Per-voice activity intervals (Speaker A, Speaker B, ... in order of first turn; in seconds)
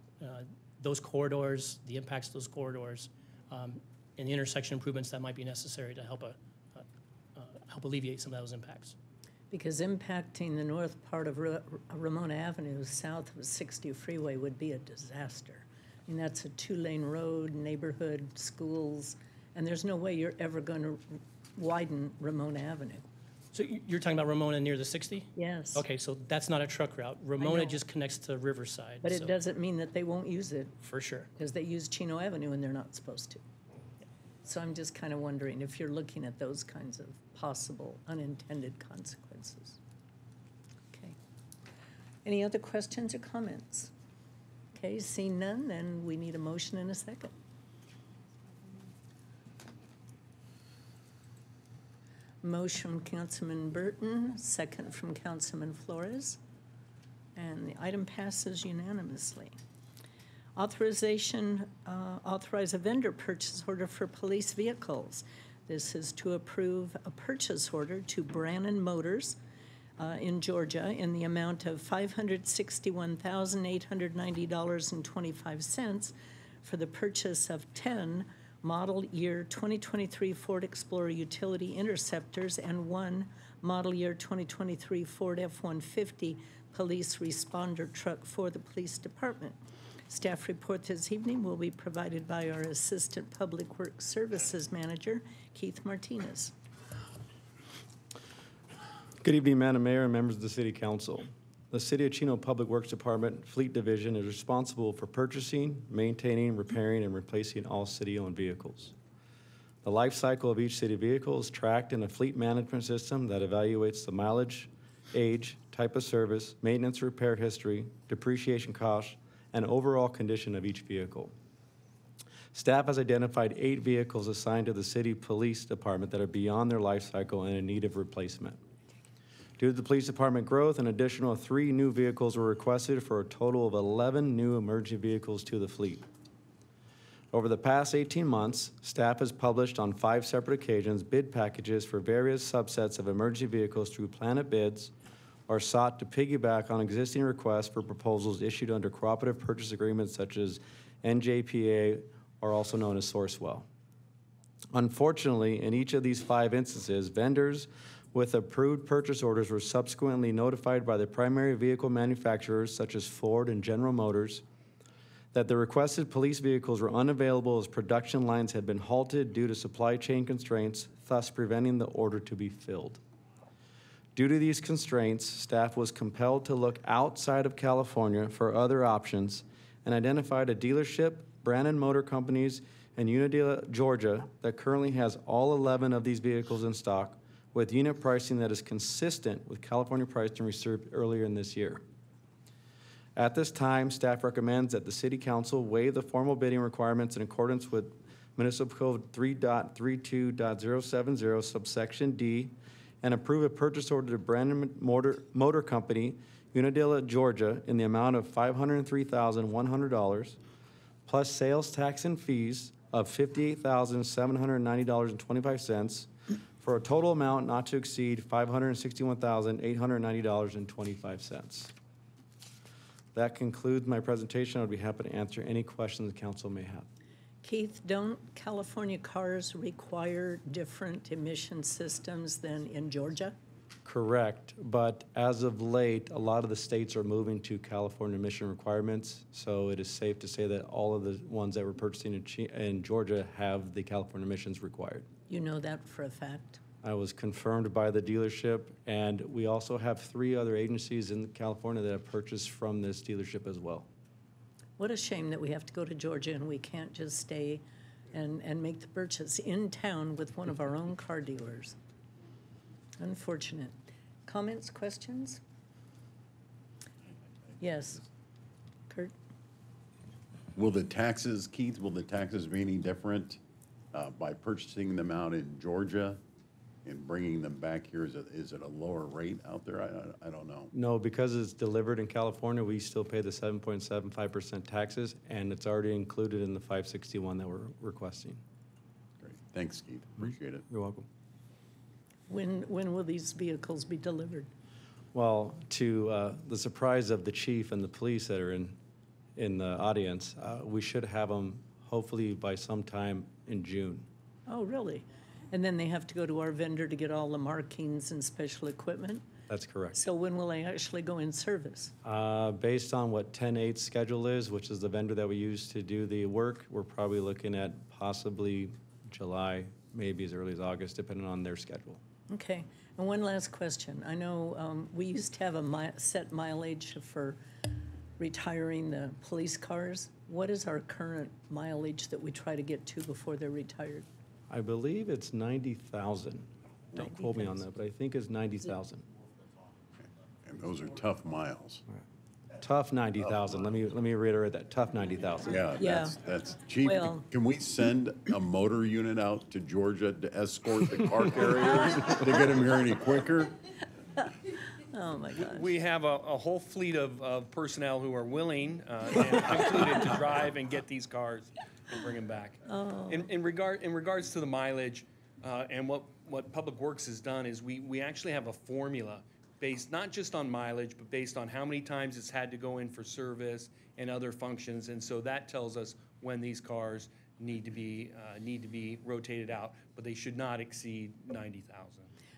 Speaker A: 0.2-6.8, 7.4-8.9, 23.5-29.4, 30.8-31.3
Speaker B: 9.5-23.1, 25.4-25.8, 27.4-27.8, 29.0-30.8, 31.4-33.4, 34.5-39.8, 40.9-41.2, 42.2-43.9, 44.7-47.3, 52.4-56.4, 57.4-59.5, 60.6-69.4, 70.0-89.6, 90.1-96.5, 227.4-233.4, 245.3-246.6, 254.8-261.8, 263.0-265.4, 267.6-268.1, 268.9-269.1, 292.3-294.5, 304.5-309.3, 309.9-311.9, 322.3-327.4, 328.2-334.1, 337.0-337.5, 345.8-346.2, 346.8-347.3, 354.9-355.7, 362.7-363.3
Speaker C: 99.2-108.9, 109.8-121.3, 122.5-128.6, 129.6-136.1, 137.3-144.9, 145.5-153.7, 154.7-164.4, 165.3-173.0, 174.2-191.8, 193.2-210.4, 211.1-221.7, 223.1-226.9, 233.8-245.1, 246.8-253.9, 280.7-288.4, 290.2-291.1, 295.1-298.8, 299.4-304.1, 309.5-310.0, 312.0-322.0, 334.5-339.1, 342.6-345.6
Speaker D: 270.6-273.4, 273.9-276.2, 276.8-280.7, 289.2-290.6, 340.4-341.8, 343.2-343.8, 345.4-353.5
Speaker E: 355.4-382.1